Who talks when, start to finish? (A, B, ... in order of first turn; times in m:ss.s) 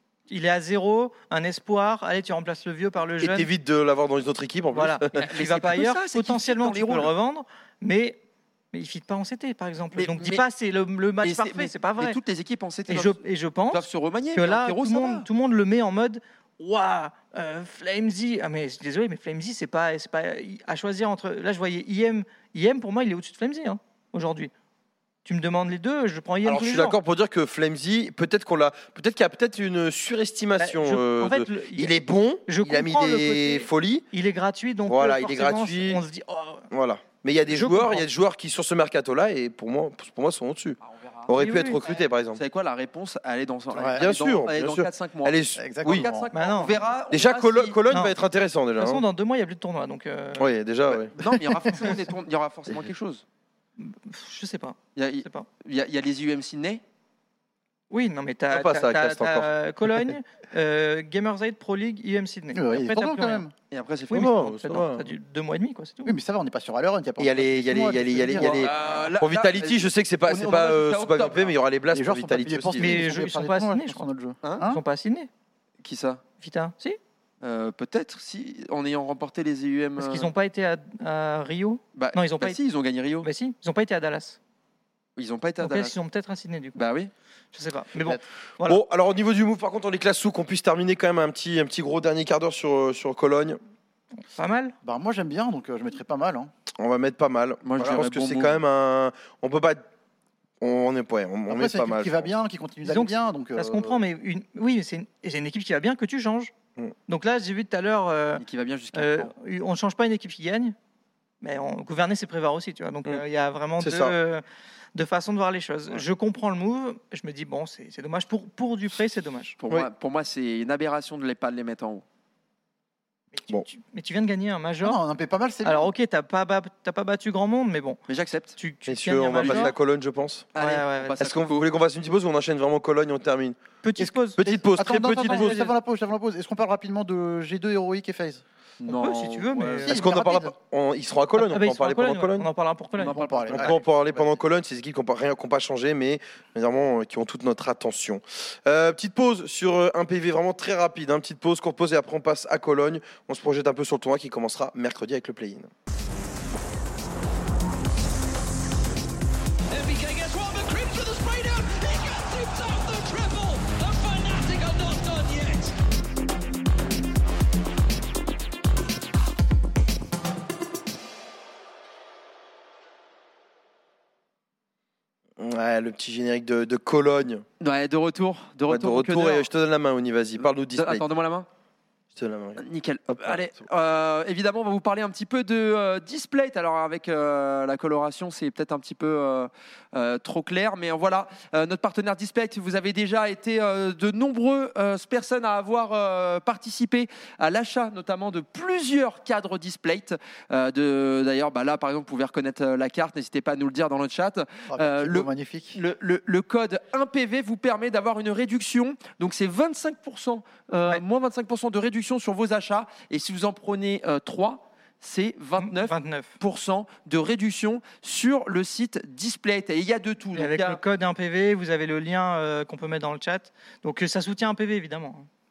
0:00.3-0:03.5 A
0:03.2-0:05.2 B
0:04.7-0:08.2 A
0:05.2-0:07.1 C
0:08.7-0:12.2 A
0:09.9-0:10.4 C
0:11.2-0:13.2 C
0:12.9-0:24.5 A
0:13.7-0:15.3 C
0:25.2-0:27.0 A
0:26.4-0:34.1 B
0:30.6-0:36.7 A
0:34.9-0:36.0 B
0:36.7-0:42.4 B
0:37.5-0:38.0 A
0:40.8-0:47.8 C
0:41.4-0:41.8 A
0:43.7-0:44.0 D
0:44.0-0:46.1 B
0:45.6-0:46.3 D
0:46.3-0:46.8 A
0:47.1-0:49.0 B
0:47.9-0:48.1 A
0:48.8-0:50.5 A
0:50.4-0:51.2 B
0:50.9-0:53.2 C
0:53.8-0:55.5 A
0:55.0-0:56.8 C
0:57.9-1:03.4 A
0:58.5-0:59.5 B
1:02.5-1:03.5 D
1:03.7-1:04.3 C
1:04.1-1:05.1 B
1:04.1-1:06.2 A
1:06.0-1:08.9 D
1:07.2-1:13.0 B
1:08.3-1:11.6 C
1:11.9-1:14.8 D
1:12.8-1:14.0 A
1:14.4-1:14.7 C
1:14.6-1:15.3 A
1:15.8-1:16.2 C
1:16.4-1:17.0 A
1:17.4-1:20.3 C
1:20.0-1:22.6 A
1:22.0-1:23.3 C
1:23.2-1:24.4 A
1:25.2-1:25.9 C
1:25.6-1:26.8 A
1:26.8-1:27.1 C
1:27.5-1:28.8 A
1:28.6-1:33.6 B
1:34.3-1:34.7 A
1:34.8-1:36.5 D
1:36.8-1:39.8 B
1:37.6-1:38.6 C
1:40.6-1:42.3 B
1:41.5-1:44.0 D
1:42.8-1:46.5 A
1:47.1-1:50.8 A
1:48.4-1:49.3 C
1:51.4-1:54.4 A
1:53.8-1:54.1 B
1:54.9-1:59.6 A
1:59.6-2:02.0 C
2:03.3-2:05.0 A
2:04.8-2:05.9 D
2:05.6-2:08.0 A
2:08.1-2:08.6 C
2:08.6-2:09.7 A
2:08.9-2:10.5 B
2:09.4-2:09.7 C
2:10.5-2:11.6 C
2:10.6-2:11.2 A
2:11.2-2:13.6 B
2:13.8-2:14.4 A
2:14.0-2:19.2 D
2:14.4-2:15.6 B
2:15.1-2:15.7 A
2:18.8-2:20.0 C
2:18.9-2:20.0 A
2:19.8-2:20.5 D
2:19.9-2:22.5 B
2:21.4-2:23.4 A
2:23.0-2:23.8 D
2:23.0-2:24.4 C
2:23.5-2:35.7 B
2:39.7-2:45.7 E
2:55.4-2:57.4 B
2:57.6-2:59.5 C
2:58.7-3:01.0 B
3:00.8-3:01.5 C
3:02.1-3:03.4 B
3:02.6-3:40.8 C
3:24.7-3:25.8 D
3:35.6-3:36.3 A
3:40.4-3:45.3 A